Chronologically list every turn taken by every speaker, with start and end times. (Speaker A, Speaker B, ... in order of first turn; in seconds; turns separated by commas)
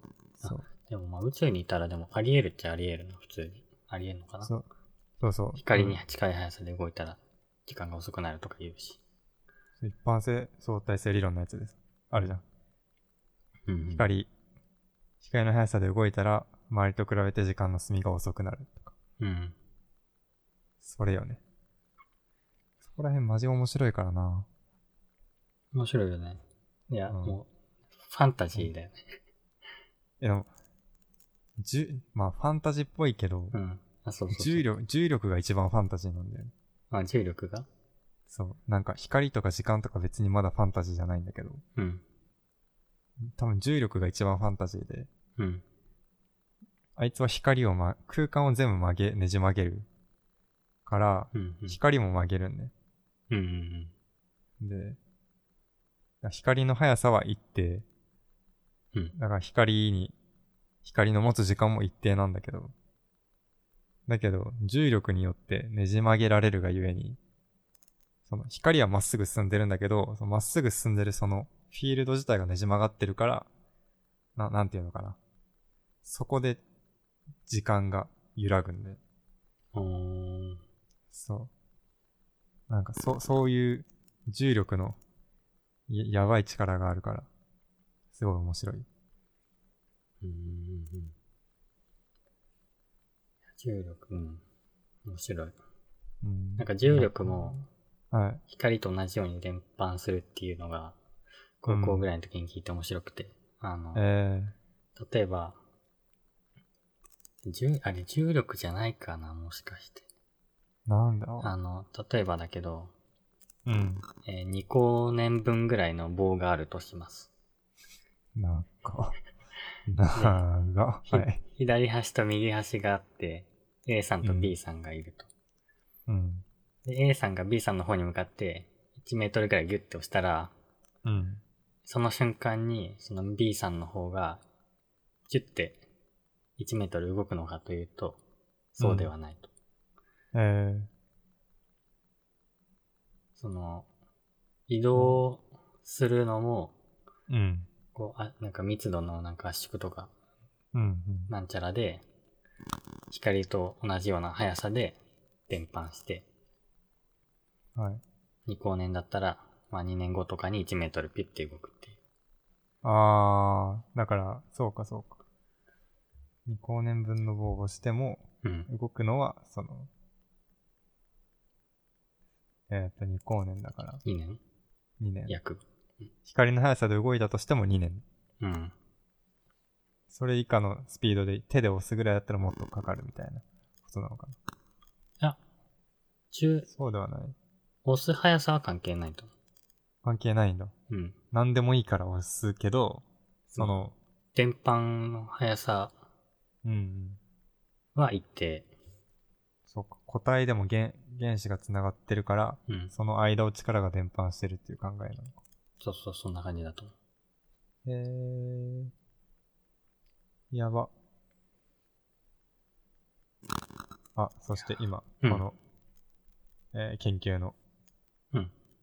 Speaker A: 0.4-0.7, Speaker B: 0.4-4.5, Speaker A: 5.2-6.0, Speaker B: 5.6-9.0, Speaker A: 9.8-12.4, Speaker B: 13.7-14.1, Speaker A: 13.9-14.3, Speaker A: 15.2-18.9, Speaker B: 19.2-19.6, Speaker A: 20.8-21.4, Speaker A: 22.8-24.5, Speaker B: 25.7-27.5, Speaker A: 27.1-27.4, Speaker B: 28.1-29.0, Speaker A: 30.2-30.5, Speaker A: 31.6-33.5, Speaker B: 33.5-34.7, Speaker A: 34.3-36.5, Speaker B: 36.9-37.7, Speaker A: 38.3-41.6, Speaker B: 41.8-42.0, Speaker A: 43.2-45.1, Speaker B: 45.4-45.6, Speaker A: 47.0-49.9, Speaker A: 50.9-52.7, Speaker B: 51.3-51.8, Speaker B: 53.3-53.9, Speaker A: 54.6-55.0, Speaker A: 56.2-57.9, Speaker A: 59.1-60.1, Speaker A: 60.8-62.7, Speaker A: 64.1-67.2, Speaker A: 68.2-73.5, Speaker A: 74.3-75.2, Speaker A: 76.0-76.6, Speaker A: 77.5-79.0, Speaker B: 79.7-80.6, Speaker A: 81.1-81.5, Speaker A: 82.7-85.0, Speaker A: 85.9-87.3, Speaker A: 88.1-88.9, Speaker B: 90.2-91.1, Speaker B: 93.6-94.4, Speaker B: 95.0-95.5, Speaker A: 96.2-97.6, Speaker B: 96.6-97.7, Speaker A: 98.1-98.4, Speaker B: 98.5-101.0, Speaker B: 101.6-104.0, Speaker A: 101.7-102.0, Speaker A: 103.9-104.5, Speaker B: 105.0-105.6, Speaker B: 107.5-110.0, Speaker A: 110.9-111.5, Speaker B: 111.4-112.9, Speaker A: 113.7-114.0, Speaker B: 114.2-117.3, Speaker A: 118.3-119.2, Speaker A: 119.9-121.4, Speaker B: 120.1-120.4, Speaker B: 121.1-125.3, Speaker A: 124.2-124.5, Speaker A: 126.1-126.4, Speaker B: 126.8-130.5, Speaker A: 131.0-131.4, Speaker B: 131.8-134.4, Speaker B: 135.3-135.8, Speaker B: 136.6-138.2, Speaker B: 138.7-139.5, Speaker A: 138.8-139.1, Speaker A: 140.3-140.9, Speaker B: 143.3-143.9, Speaker B: 144.7-146.8, Speaker A: 144.9-145.2, Speaker A: 147.3-147.7, Speaker B: 147.9-150.1, Speaker A: 150.7-151.3, Speaker B: 151.3-152.0, Speaker B: 153.1-156.3, Speaker A: 157.7-158.0, Speaker B: 158.5-162.0, Speaker A: 162.8-165.2, Speaker A: 166.4-169.9, Speaker A: 172.7-174.0, Speaker B: 174.0-174.4, Speaker A: 175.0-175.4, Speaker B: 175.3-175.6, Speaker A: 176.2-178.0, Speaker B: 178.4-178.7, Speaker A: 180.1-184.3, Speaker B: 186.3-186.7, Speaker A: 186.7-187.3, Speaker B: 187.8-189.3, Speaker A: 190.0-190.7, Speaker B: 190.9-191.2, Speaker A: 191.3-193.0, Speaker A: 193.6-193.9, Speaker B: 194.3-195.9, Speaker A: 196.6-197.2, Speaker B: 197.9-198.7, Speaker A: 199.7-205.4, Speaker B: 202.7-202.9, Speaker B: 205.8-206.9, Speaker A: 207.8-208.9, Speaker A: 210.5-210.9, Speaker A: 214.2-215.6, Speaker B: 214.6-215.4, Speaker A: 216.7-217.6